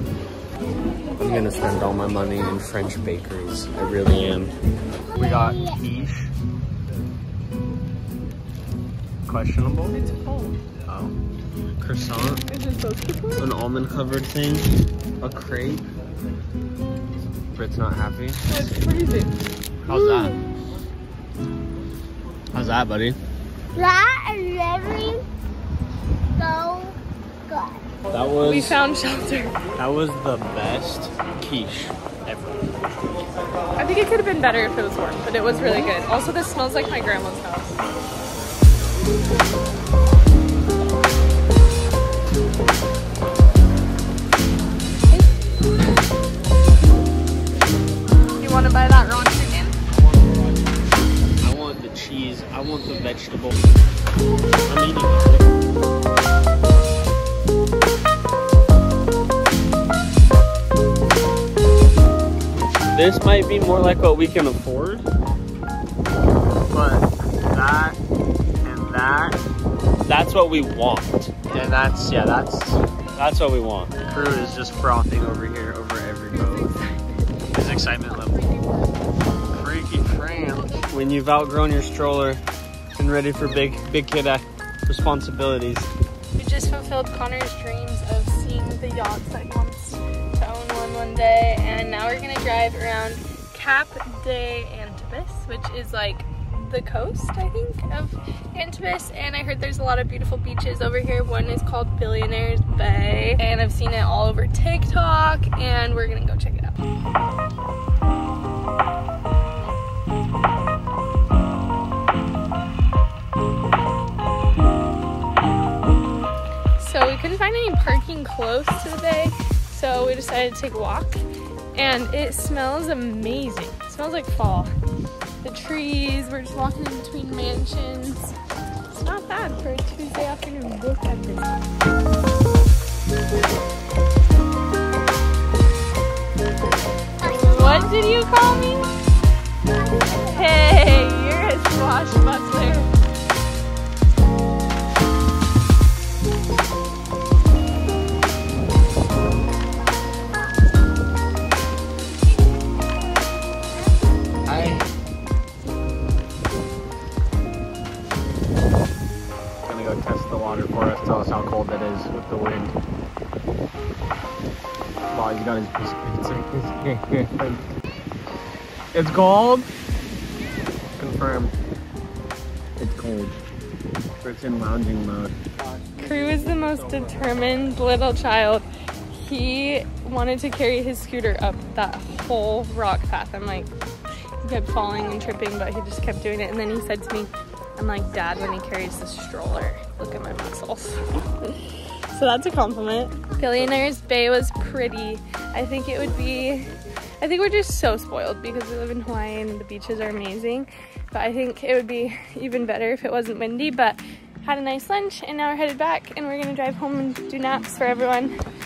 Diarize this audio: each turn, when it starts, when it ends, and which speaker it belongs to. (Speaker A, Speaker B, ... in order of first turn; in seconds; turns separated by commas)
Speaker A: 1.2-4.5, Speaker A: 5.1-6.3, Speaker A: 9.2-10.0, Speaker B: 9.9-10.6, Speaker A: 10.9-11.1, Speaker A: 11.8-12.4, Speaker B: 12.5-13.5, Speaker A: 13.4-14.7, Speaker A: 15.2-15.8, Speaker A: 17.4-18.8, Speaker B: 18.5-19.3, Speaker A: 19.9-20.4, Speaker B: 19.9-20.4, Speaker A: 22.5-23.2, Speaker C: 23.8-25.2, Speaker C: 26.4-27.8, Speaker A: 28.1-28.8, Speaker B: 28.4-29.6, Speaker A: 29.8-32.7, Speaker B: 33.8-37.8, Speaker A: 35.6-35.9, Speaker B: 48.4-49.8, Speaker A: 49.9-50.6, Speaker A: 51.4-53.6, Speaker A: 54.7-55.5, Speaker A: 62.9-65.1, Speaker A: 66.7-68.0, Speaker A: 68.6-69.4, Speaker A: 70.0-76.8, Speaker B: 76.3-78.9, Speaker A: 77.5-78.4, Speaker A: 79.5-82.4, Speaker A: 83.0-85.9, Speaker B: 86.3-106.8, Speaker B: 116.8-124.7, Speaker B: 125.4-128.4, Speaker B: 128.9-131.8, Speaker B: 137.2-138.9, Speaker C: 137.3-137.6, Speaker C: 139.7-140.5, Speaker B: 140.2-142.9, Speaker A: 154.4-154.9, Speaker A: 159.7-162.8, Speaker A: 165.1-167.6, Speaker A: 168.9-169.7, Speaker A: 171.0-171.5, Speaker A: 172.8-173.4, Speaker A: 174.2-177.2, Speaker B: 176.0-183.7, Speaker B: 184.4-208.3, Speaker A: 193.4-193.8